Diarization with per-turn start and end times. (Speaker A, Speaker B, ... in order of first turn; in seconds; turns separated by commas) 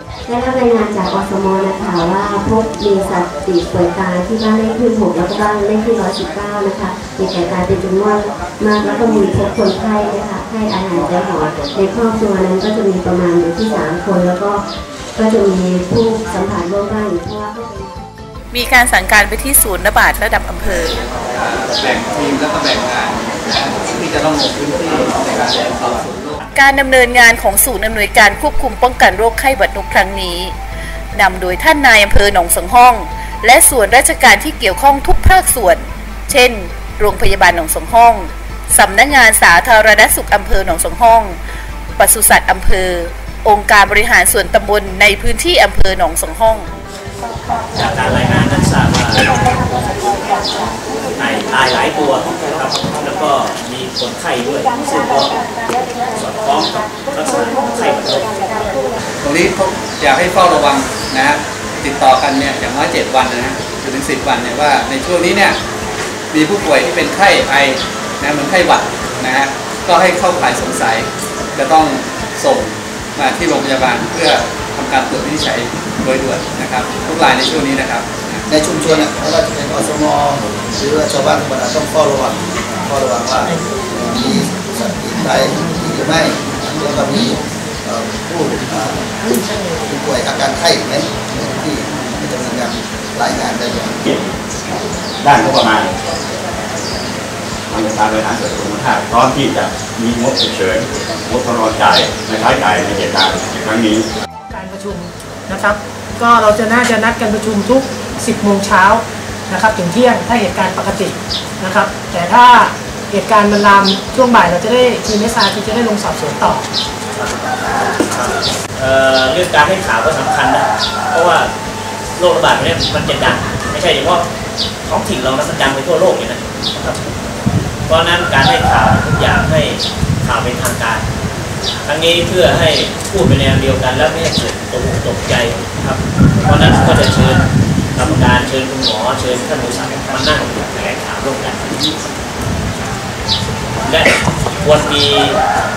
Speaker A: 0.3-14.6, Speaker A: 15.1-18.0, Speaker B: 18.5-21.0, Speaker C: 21.2-26.4, Speaker B: 26.5-30.5, Speaker B: 31.1-41.4, Speaker B: 42.0-46.7, Speaker D: 47.7-49.4, Speaker D: 51.1-55.4, Speaker D: 55.9-58.4, Speaker C: 59.2-65.6, Speaker C: 66.3-78.4, Speaker E: 78.5-89.1, Speaker E: 89.8-94.0, Speaker F: 95.2-95.9, Speaker F: 97.7-104.0, Speaker G: 104.5-116.6, Speaker D: 118.1-121.5, Speaker D: 122.2-124.2, Speaker D: 124.8-127.0, Speaker D: 127.9-131.0, Speaker D: 131.8-141.8, Speaker D: 143.8-145.4